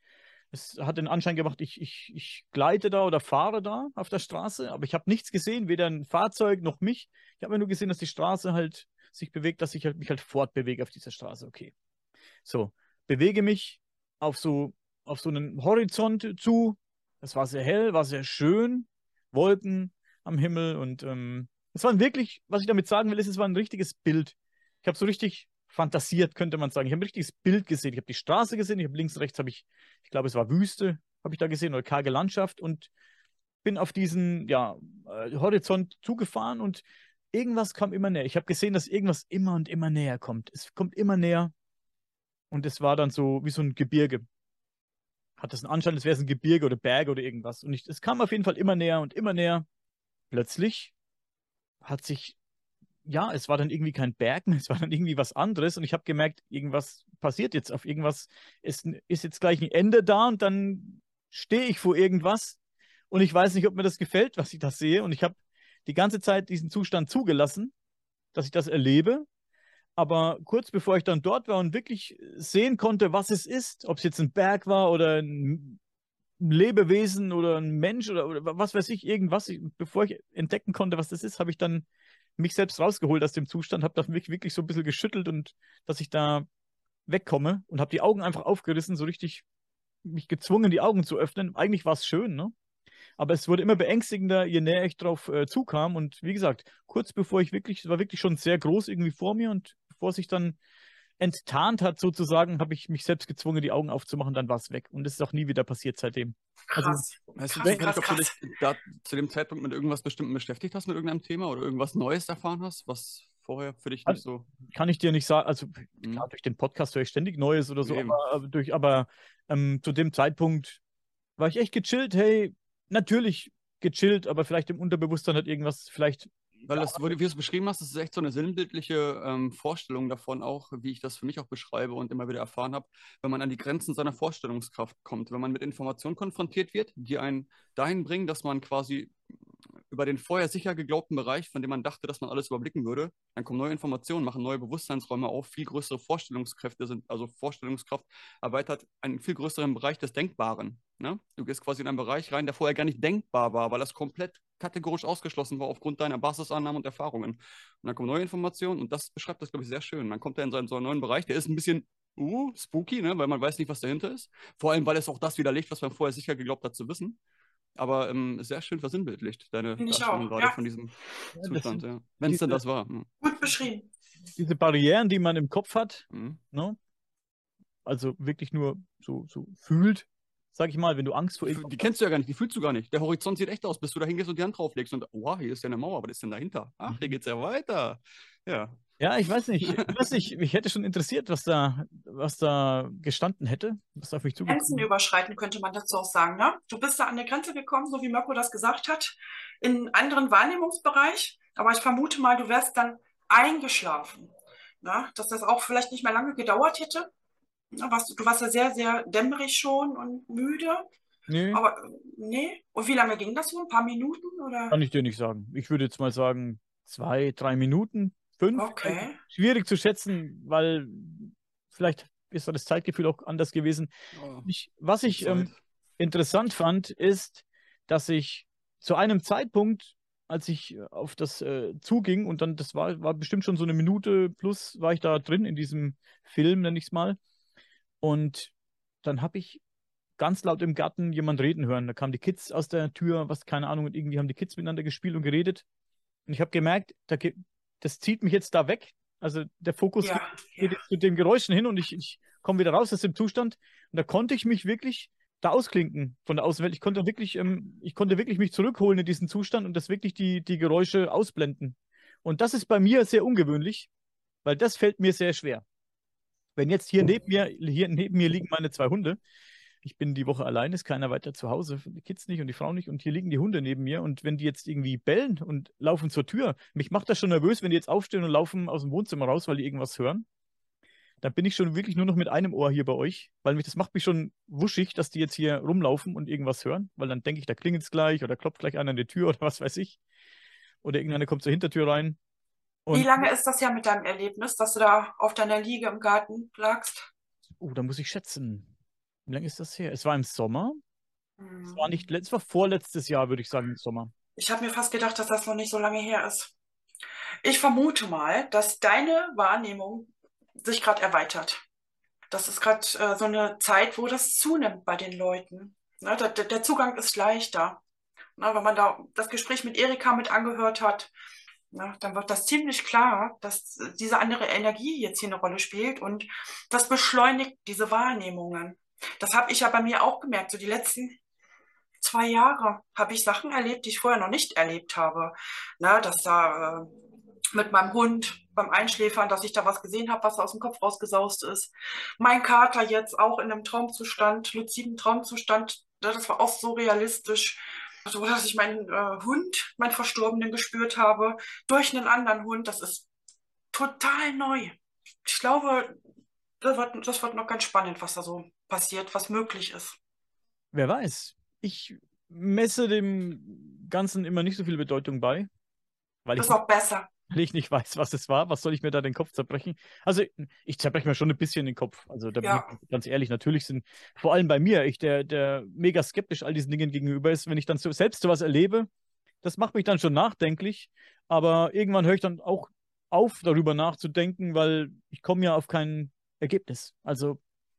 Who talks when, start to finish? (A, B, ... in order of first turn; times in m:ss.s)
0:00.5-0:11.7 A
0:12.4-0:32.9 A
0:33.6-0:41.5 A
0:42.5-0:44.2 A
0:45.4-0:49.6 A
0:50.3-0:50.9 A
0:51.8-0:52.4 A
0:53.1-1:02.6 A
1:03.1-1:07.7 A
1:08.3-1:09.3 A
1:10.0-1:15.8 A
1:16.4-1:21.9 A
1:22.4-1:26.5 A
1:27.1-1:29.4 A
1:30.0-1:32.5 A
1:33.2-1:40.6 A
1:41.2-1:47.0 A
1:46.7-1:48.3 B
1:47.4-1:54.5 C
1:47.6-1:48.0 A
1:54.1-2:00.8 A
1:56.0-1:56.3 C
1:57.8-1:58.2 C
2:01.4-2:07.1 A
2:06.7-2:19.1 C
2:19.9-2:47.2 C
2:47.8-2:53.1 C
2:49.8-2:50.6 B
2:51.4-2:52.6 A
2:53.2-2:53.9 B
2:54.4-2:56.8 A
2:56.1-2:56.4 C
2:57.9-3:01.9 A
3:01.4-3:08.8 C
3:06.9-3:07.1 A
3:09.0-3:14.9 A
3:09.6-3:09.9 C
3:14.5-3:24.3 B
3:24.8-3:27.1 B
3:27.7-3:30.8 B
3:31.3-3:31.6 A
3:31.5-3:34.8 B
3:34.7-3:43.9 A
3:38.6-3:39.2 B
3:44.2-3:44.5 C
3:44.4-3:57.2 A
3:45.1-3:45.6 C
3:58.0-3:59.6 A
4:00.2-4:05.6 A
4:06.3-4:23.9 A
4:10.0-4:10.8 B
4:24.4-4:25.6 A
4:26.6-4:29.2 A
4:29.8-4:40.2 A
4:41.2-4:50.0 A
4:50.8-4:52.2 A
4:52.9-4:53.3 A
4:52.9-4:57.1 B
4:57.6-4:58.7 A
4:59.3-5:00.8 A
5:01.4-5:01.9 B
5:01.7-5:04.1 A
5:04.4-5:06.5 B
5:07.4-5:10.1 B
5:10.6-5:11.6 B
5:12.3-5:17.8 B
5:18.4-5:21.1 B
5:21.7-5:31.2 B
5:32.0-5:36.9 B
5:37.5-5:53.1 B
5:53.7-5:56.0 B
5:56.6-6:00.0 B
6:00.7-6:05.5 A
6:06.3-6:06.6 A
6:06.4-6:07.1 B
6:07.3-6:18.9 A
6:12.4-6:12.7 B
6:19.4-6:27.4 A